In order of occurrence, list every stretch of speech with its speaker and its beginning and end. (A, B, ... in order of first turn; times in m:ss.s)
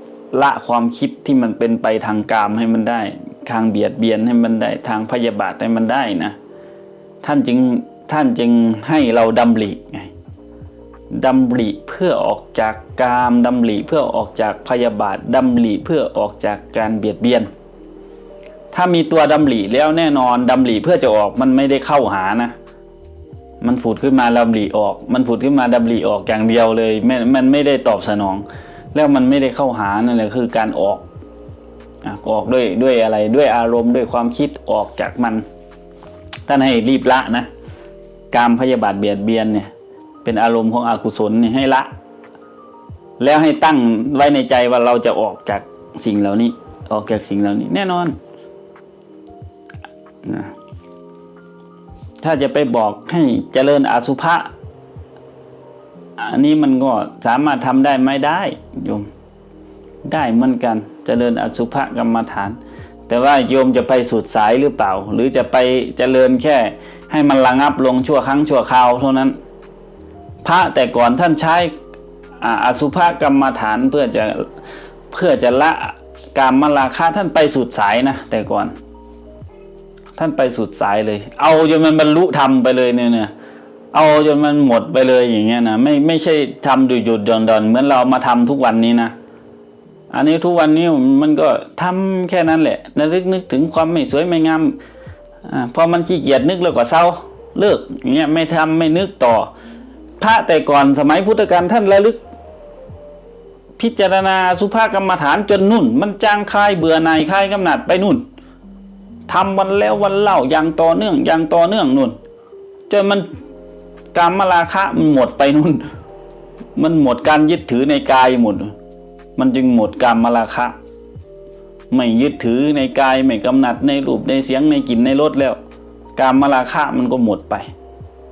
0:00.3-0:06.4 A
0:07.2-0:10.1 A
0:11.1-0:17.5 A
0:18.7-0:22.5 A
0:23.6-0:31.0 A
0:32.0-0:35.4 A
0:36.5-0:37.5 A
0:38.3-0:39.7 A
0:40.2-0:41.9 A
0:43.2-0:48.2 A
0:50.2-0:50.5 A
0:52.2-0:54.5 A
0:56.2-0:59.1 A
1:00.0-1:09.3 A
1:10.4-1:11.7 A
1:12.4-1:14.5 A
1:15.1-1:18.7 A
1:20.2-1:23.3 A
1:23.9-1:29.1 A
1:30.1-1:34.8 A
1:35.4-1:39.5 A
1:40.2-1:42.2 A
1:43.8-1:48.2 A
1:49.3-1:52.2 A
1:52.9-1:53.3 A
1:54.1-1:55.9 A
1:56.8-1:58.7 A
1:59.4-2:00.7 A
2:01.9-2:05.6 A
2:06.2-2:07.7 A